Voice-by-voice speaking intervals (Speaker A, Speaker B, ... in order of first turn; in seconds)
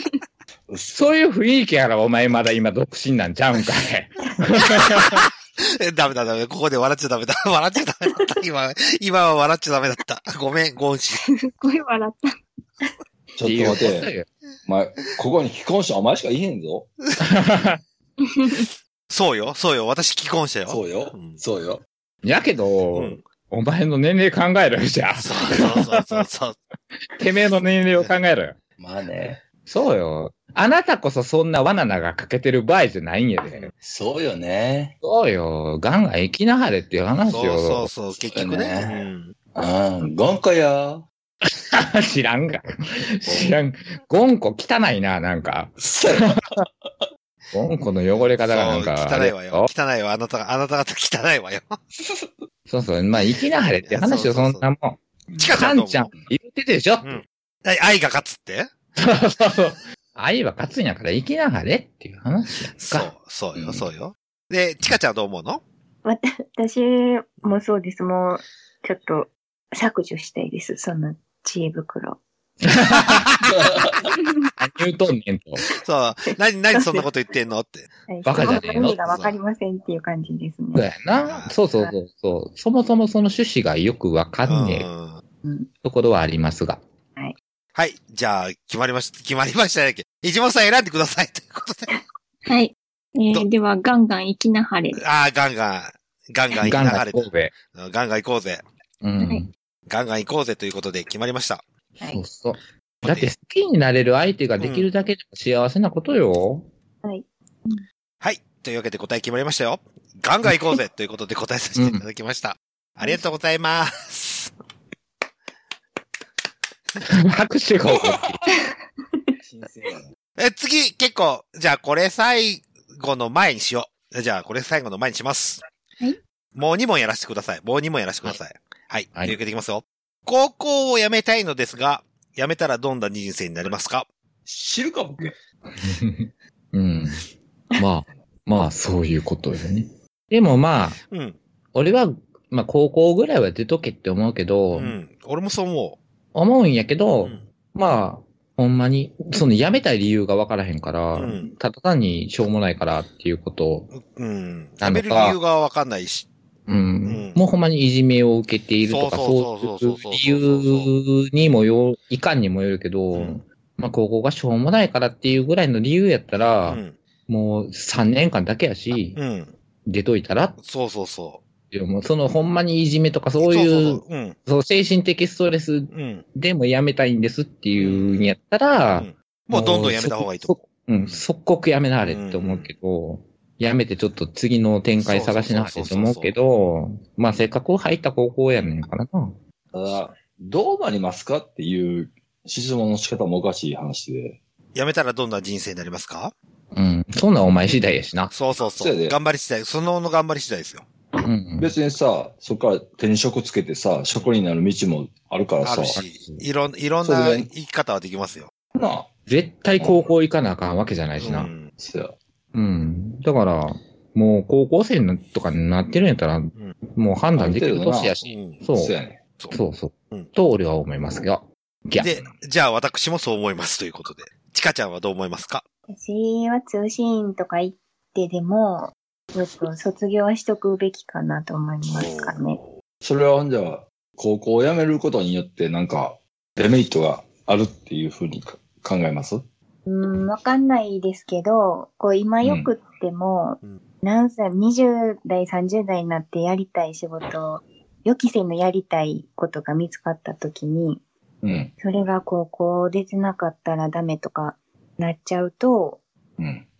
Speaker A: 0.7-1.0, 13.3-14.1, 14.7-16.9, 20.7-21.8, 28.8-29.4, 33.8-35.0, 38.3-41.0, 43.3-43.6, 45.8-46.9, 52.0-52.3, 63.5-63.9, 73.4-74.1, 119.4-120.1, 134.4-135.3, 189.7-194.4, 198.8-199.2, 201.6-206.0, 207.0-207.5, 208.7-209.1, 209.8-210.1, 211.7-212.2, 217.3-219.2, 222.0-222.3, 233.0-239.4, 242.4-242.7, 251.4-251.7, 256.4-256.6
Speaker B: 0.9-5.2, 13.4-14.3, 17.2-17.8, 22.2-26.2, 27.2-28.6, 29.6-33.7, 35.0-37.9, 41.5-46.4, 47.5-49.7, 52.7-57.2, 59.0-63.1, 72.8-73.4, 74.6-75.6, 78.2-79.0, 80.7-84.9, 85.8-86.8, 96.6-97.5, 99.0-99.5, 102.0-106.7, 111.7-112.0, 117.1-118.4, 135.8-137.2, 137.8-141.0, 141.7-145.0, 146.3-153.9, 154.8-155.4, 156.7-169.2, 169.8-170.6, 171.7-189.3, 196.7-198.3, 201.2-201.7, 206.0-206.4, 209.3-211.5, 212.5-218.9, 219.5-222.2
Speaker C: 4.8-11.2, 19.1-21.4, 22.9-23.2, 25.2-26.6, 37.3-39.3, 48.4-51.8, 53.8-54.6, 55.4-56.1, 57.0-58.7, 62.8-65.6, 75.8-77.9, 78.9-79.3, 81.2-81.6, 84.5-85.2, 87.7-91.9, 94.9-98.6, 99.9-101.6, 103.0-103.3, 104.6-104.9, 108.2-114.5, 120.4-125.6, 126.5-134.1, 141.1-141.4, 144.7-146.0, 151.1-151.5, 153.9-156.3, 157.0-157.4, 158.8-160.9, 163.1-163.4, 166.7-166.9, 169.2-169.5, 170.6-171.4, 173.4-174.4, 175.9-176.2, 177.8-178.3, 178.9-181.2, 182.0-182.7, 185.0-186.5, 188.5-188.8, 194.7-196.3, 198.3-200.8, 205.6-208.5, 211.2-211.7, 218.2-218.6, 222.0-225.6, 231.9-232.7
Speaker D: 11.6-12.2, 66.0-72.2, 76.7-77.0, 78.1-80.8, 85.4-85.7, 107.0-107.8, 225.9-232.6, 239.8-251.0, 251.8-256.0
Speaker E: 92.5-95.0, 99.2-99.4